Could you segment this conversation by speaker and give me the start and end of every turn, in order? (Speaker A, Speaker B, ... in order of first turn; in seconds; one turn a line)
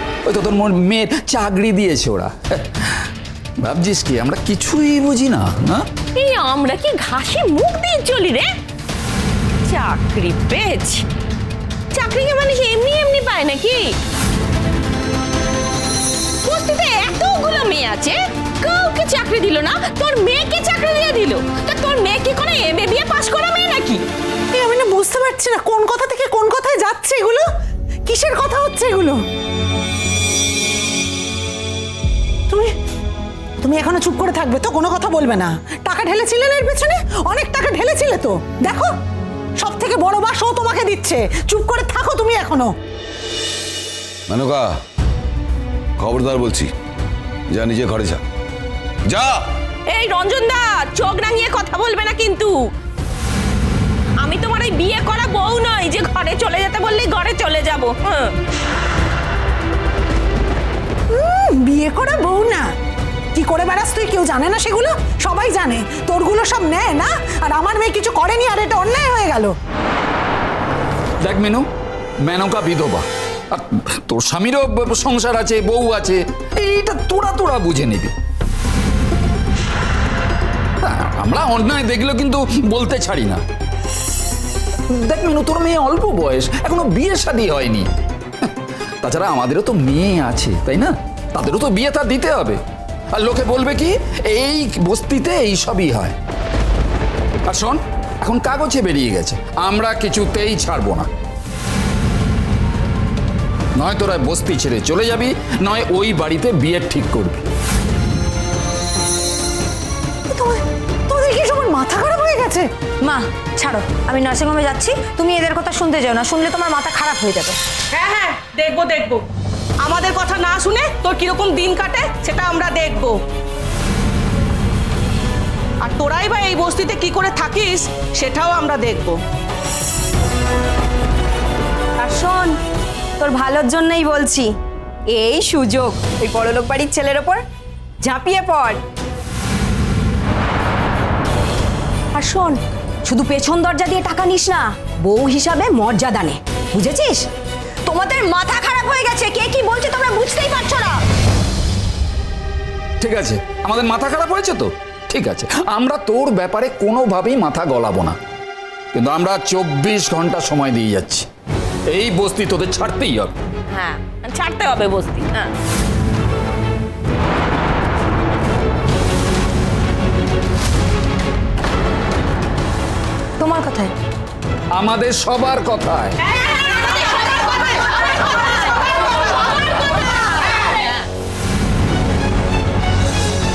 Speaker A: 0.2-3.1
Speaker A: 3.6-5.9
Speaker B: 6.2-8.5
Speaker B: 9.6-11.1
Speaker B: 11.9-13.9
Speaker B: 16.4-24.0
Speaker C: 24.5-27.4
Speaker C: 28.1-29.2
Speaker C: 33.6-39.0
Speaker C: 39.6-42.7
Speaker D: 44.3-44.8
Speaker D: 46.0-46.7
Speaker D: 47.5-48.2
Speaker D: 49.1-49.5
Speaker B: 49.9-52.6
Speaker B: 54.2-58.3
Speaker C: 61.1-62.7
Speaker C: 63.4-69.5
Speaker A: 71.2-71.7
Speaker A: 72.2-78.1
Speaker A: 80.8-83.4
Speaker A: 84.9-87.9
Speaker A: 89.0-92.6
Speaker A: 93.1-96.2
Speaker A: 97.5-101.1
Speaker A: 103.8-107.5
Speaker C: 110.3-112.7
Speaker E: 113.0-117.6
Speaker F: 117.9-119.2
Speaker F: 119.8-123.2
Speaker F: 125.8-129.2
Speaker E: 132.0-132.6
Speaker E: 133.2-134.6
Speaker E: 135.1-137.4
Speaker E: 138.0-138.8
Speaker E: 142.1-147.3
Speaker E: 147.9-151.0
Speaker A: 153.0-158.2
Speaker A: 158.9-161.3
Speaker A: 161.9-163.3
Speaker B: 163.7-165.5
Speaker E: 173.4-173.9
Speaker A: 174.7-176.2